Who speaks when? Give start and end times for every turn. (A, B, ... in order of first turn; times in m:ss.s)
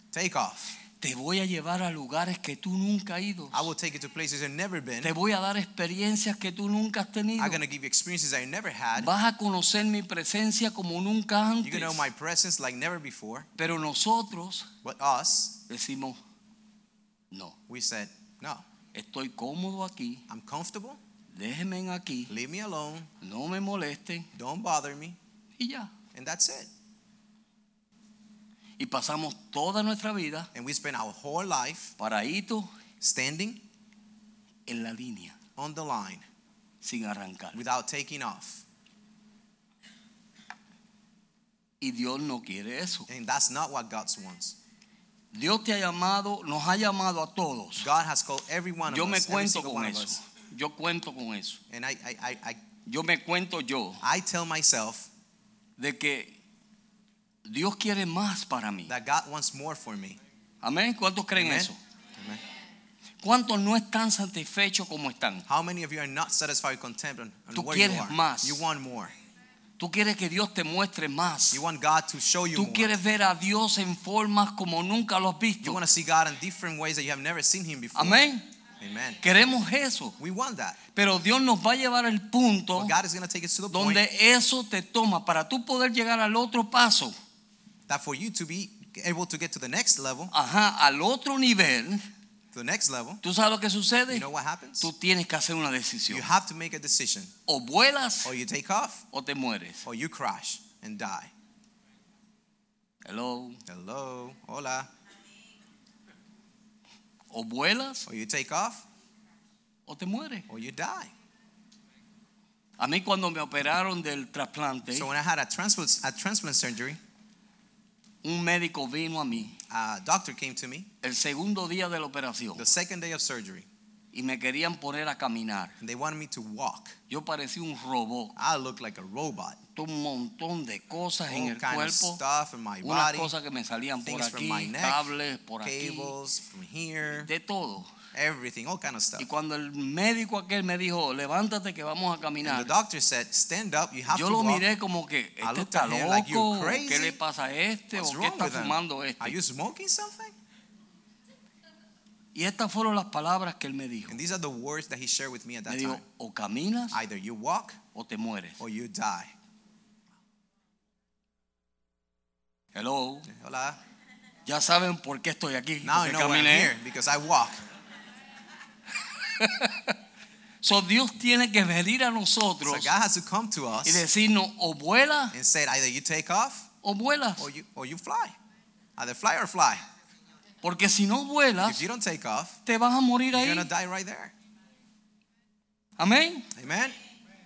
0:00.1-0:00.7 A
0:01.0-0:03.7 B
0:03.5-0:05.2 A
0:05.0-0:07.6 B
0:07.4-0:09.1 A
0:09.0-0:12.1 B
0:11.6-0:13.5 A
0:13.6-0:14.7 B
0:14.8-0:15.6 A
0:15.7-0:16.2 B
0:17.7-0:18.6 A
0:18.9-0:20.2 B
0:20.3-0:21.0 A
0:21.3-0:22.3 B
0:22.3-0:23.1 A
0:23.2-0:24.3 B
0:24.4-0:25.2 A
0:25.6-0:25.9 B
0:26.1-0:26.7 A
0:28.8-0:30.5 B
0:30.5-0:31.9 A
0:32.0-0:32.7 B
0:33.0-0:33.6 A
0:34.7-0:35.4 B
0:35.6-0:36.2 A
0:36.8-0:37.6 B
0:37.5-0:38.6 A
0:41.8-0:43.1 B
0:43.1-0:44.6 A
0:45.3-0:47.9 B
0:47.8-0:50.2 A
0:48.9-0:51.6 B
0:51.7-0:52.6 A
0:52.9-0:54.0 B
0:54.0-0:55.1 A
0:55.8-0:56.4 B
0:57.4-0:59.0 B
0:58.9-1:00.2 A
1:00.6-1:01.8 B
1:01.4-1:02.4 A
1:03.2-1:05.4 B
1:05.5-1:09.1 A
1:07.5-1:08.6 B
1:09.8-1:11.6 B
1:11.5-1:13.0 A
1:12.5-1:15.8 B
1:15.6-1:18.2 A
1:18.0-1:18.5 B
1:18.8-1:19.2 A
1:19.2-1:20.2 B
1:20.2-1:20.8 A
1:20.9-1:22.9 B
1:22.7-1:24.0 A
1:23.7-1:27.1 B
1:27.9-1:30.3 A
1:30.3-1:32.0 B
1:32.5-1:33.2 A
1:33.2-1:34.3 B
1:34.1-1:34.9 A
1:34.8-1:36.3 B
1:36.1-1:37.3 A
1:37.5-1:38.3 B
1:38.2-1:39.0 A
1:39.1-1:39.8 B
1:39.8-1:41.3 A
1:43.0-1:43.6 B
1:43.7-1:44.9 A
1:47.3-1:48.1 B
1:48.1-1:48.8 A
1:49.9-1:50.5 B
1:50.5-1:51.1 A
1:52.8-1:55.1 B
1:54.9-1:57.0 A
1:58.2-1:59.6 B
1:59.7-2:00.9 A
2:01.0-2:02.7 B
2:02.6-2:03.7 A
2:04.1-2:05.8 B
2:05.8-2:07.0 A
2:07.1-2:08.4 B
2:08.4-2:09.6 A
2:09.8-2:12.2 B
2:11.3-2:13.3 A
2:12.8-2:16.1 B
2:14.0-2:15.1 A
2:15.6-2:17.3 A
2:17.2-2:17.9 B
2:18.1-2:19.3 A
2:19.2-2:22.7 B
2:22.4-2:24.7 A
2:24.1-2:29.4 B
2:25.4-2:27.2 A
2:28.0-2:30.4 A
2:32.4-2:34.2 B
2:34.1-2:36.0 A
2:35.7-2:37.0 B
2:36.9-2:37.8 A
2:37.9-2:38.6 B
2:38.6-2:39.3 A
2:42.7-2:43.3 B
2:43.3-2:43.8 A
2:44.5-2:46.7 B
2:45.8-2:47.6 A
2:49.3-2:50.0 B
2:50.6-2:52.9 B
2:52.6-2:54.0 A
2:53.8-2:55.4 B
2:55.3-2:56.7 A
2:56.8-2:57.5 B
2:57.4-2:58.4 A
2:59.0-2:59.8 A
3:00.6-3:01.8 B
3:01.6-3:02.6 A
3:02.7-3:03.7 B
3:03.3-3:04.3 A
3:06.0-3:06.5 B
3:06.6-3:07.0 A